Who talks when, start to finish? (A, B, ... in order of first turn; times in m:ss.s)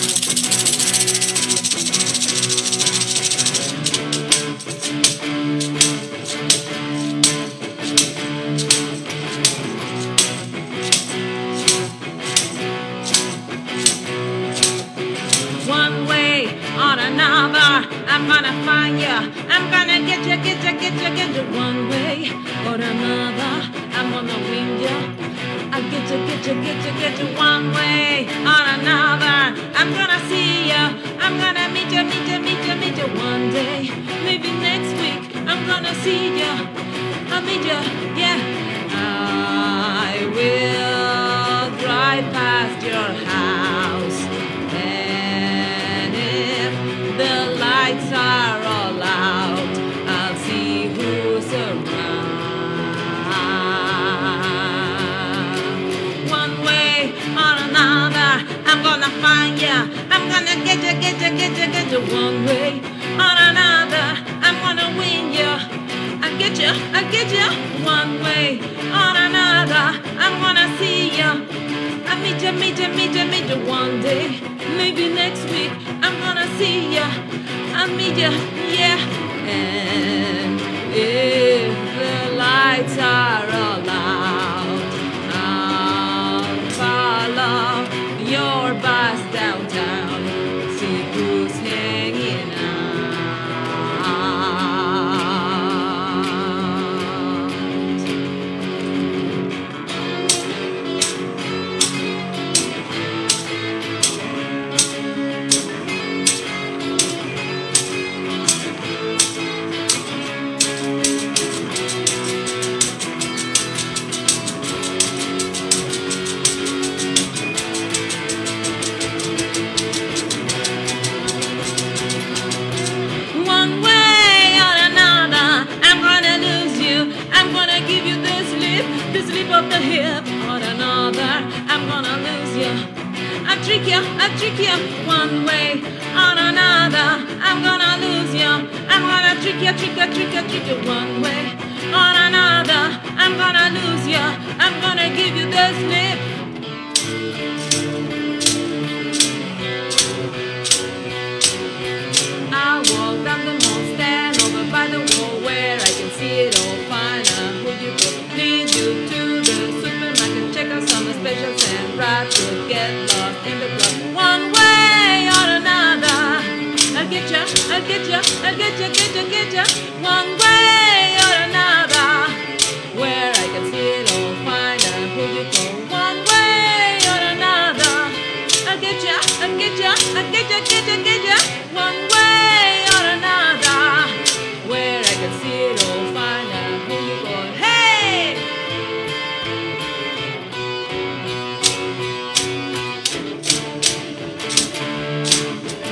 0:15.6-0:25.1 A
0:25.7-0:36.7 A
0:37.3-1:11.4 A
1:12.0-1:37.9 A
2:03.3-2:26.3 A
2:32.5-3:08.5 A